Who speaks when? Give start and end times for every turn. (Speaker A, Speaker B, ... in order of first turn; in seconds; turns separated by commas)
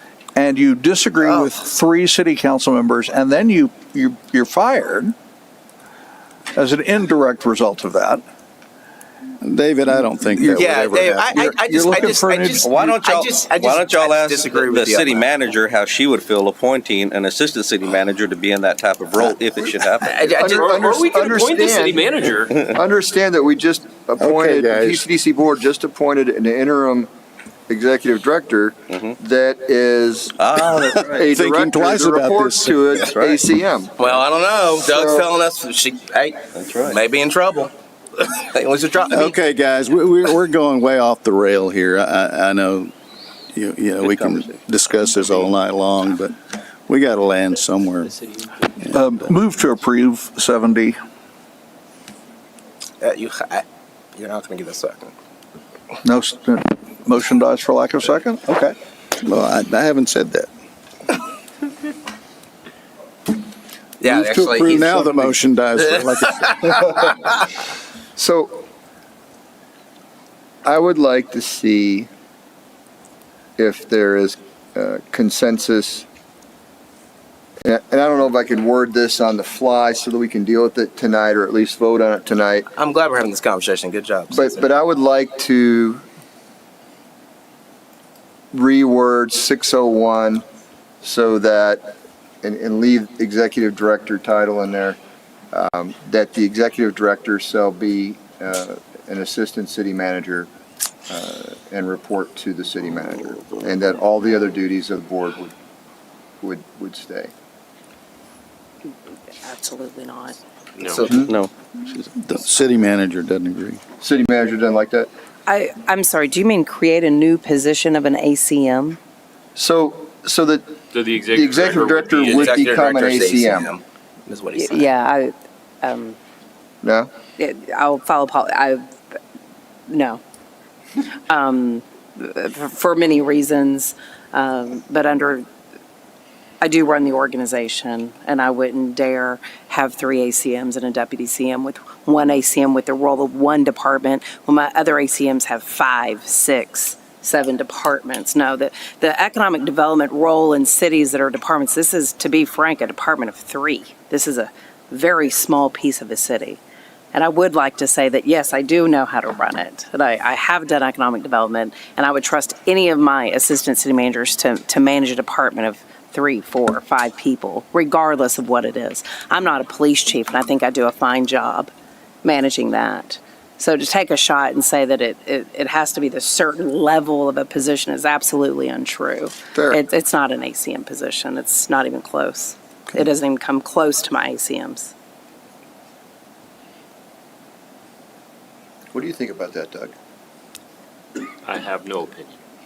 Speaker A: 0.3-5.2, Speaker B: 1.2-1.6, Speaker A: 6.5-8.2, Speaker C: 9.4-11.4, Speaker A: 10.3-10.7, Speaker B: 10.6-15.3, Speaker A: 11.2-12.9, Speaker D: 12.7-20.4, Speaker B: 20.0-20.8, Speaker E: 20.4-22.7, Speaker F: 20.4-22.1, Speaker F: 22.7-27.1, Speaker C: 24.2-25.1, Speaker F: 27.7-30.4, Speaker D: 30.4-31.2, Speaker C: 30.7-33.1, Speaker F: 31.0-34.1, Speaker D: 33.0-33.4, Speaker B: 34.0-39.4, Speaker F: 34.9-35.3, Speaker D: 36.5-37.0, Speaker C: 39.1-42.9, Speaker C: 43.5-49.3, Speaker B: 45.2-45.5, Speaker A: 48.9-51.0, Speaker B: 53.0-55.1, Speaker A: 56.0-58.8, Speaker C: 59.2-60.5, Speaker B: 64.0-66.7, Speaker F: 64.1-65.2, Speaker C: 64.1-66.8, Speaker F: 68.2-68.6, Speaker F: 70.6-72.1, Speaker F: 73.6-76.0, Speaker F: 77.6-82.7, Speaker B: 82.7-84.7, Speaker F: 84.3-86.0, Speaker F: 88.5-90.4, Speaker F: 91.0-91.9, Speaker F: 92.4-95.0, Speaker F: 95.5-100.5, Speaker F: 101.1-105.5, Speaker F: 106.4-107.3, Speaker G: 109.4-110.4, Speaker E: 110.8-111.1, Speaker B: 110.8-111.3, Speaker D: 111.2-111.5, Speaker C: 111.9-113.8, Speaker F: 114.0-115.1, Speaker G: 115.5-119.0, Speaker F: 119.5-123.7, Speaker E: 120.9-122.6, Speaker B: 122.2-124.9, Speaker G: 124.5-126.2, Speaker F: 126.8-127.1, Speaker G: 127.4-128.9, Speaker G: 129.9-130.2, Speaker G: 131.3-135.5, Speaker G: 136.6-156.6, Speaker G: 157.1-171.7, Speaker G: 172.2-184.9, Speaker F: 179.6-179.8, Speaker F: 188.9-189.9, Speaker E: 191.4-192.4